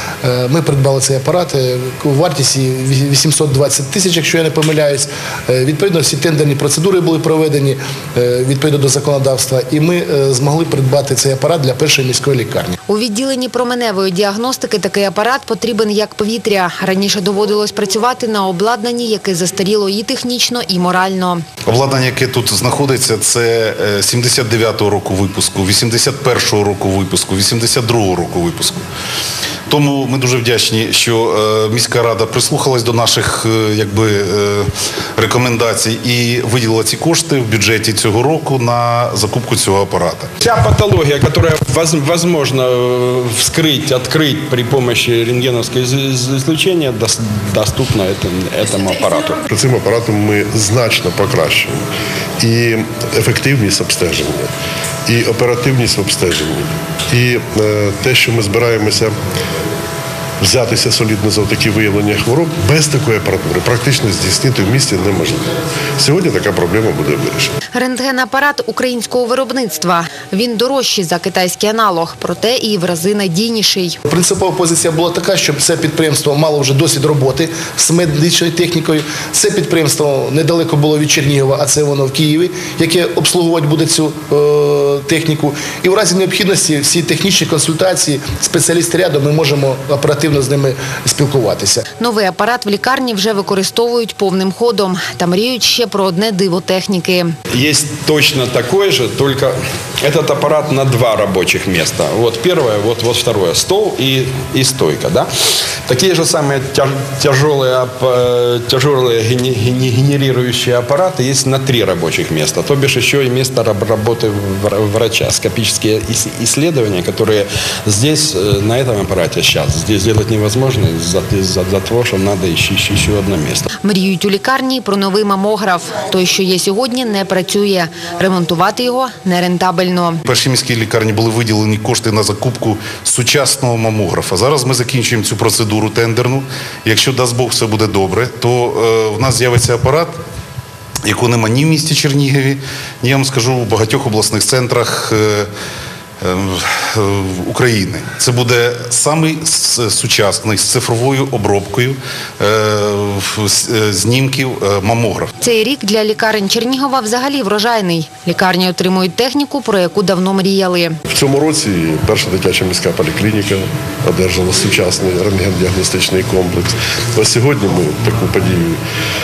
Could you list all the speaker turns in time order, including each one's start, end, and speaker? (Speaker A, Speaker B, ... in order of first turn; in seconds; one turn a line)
Speaker A: 0.2-12.8
Speaker B: 12.9-21.4
Speaker C: 21.6-28.8
Speaker C: 29.7-40.3
Speaker D: 40.4-49.5
Speaker E: 49.5-51.9
Speaker E: 52.4-54.5
Speaker E: 55.1-59.1
Speaker E: 60.4-67.5
Speaker B: 67.7-74.0
Speaker A: 74.1-91.8
Speaker B: 92.0-97.3
Speaker D: 97.5-105.3
Speaker D: 105.9-123.7
Speaker B: 123.8-130.2
Speaker C: 130.2-140.2
Speaker C: 141.0-145.5
Speaker C: 146.2-155.3
Speaker B: 155.4-160.9
Speaker E: 161.1-168.8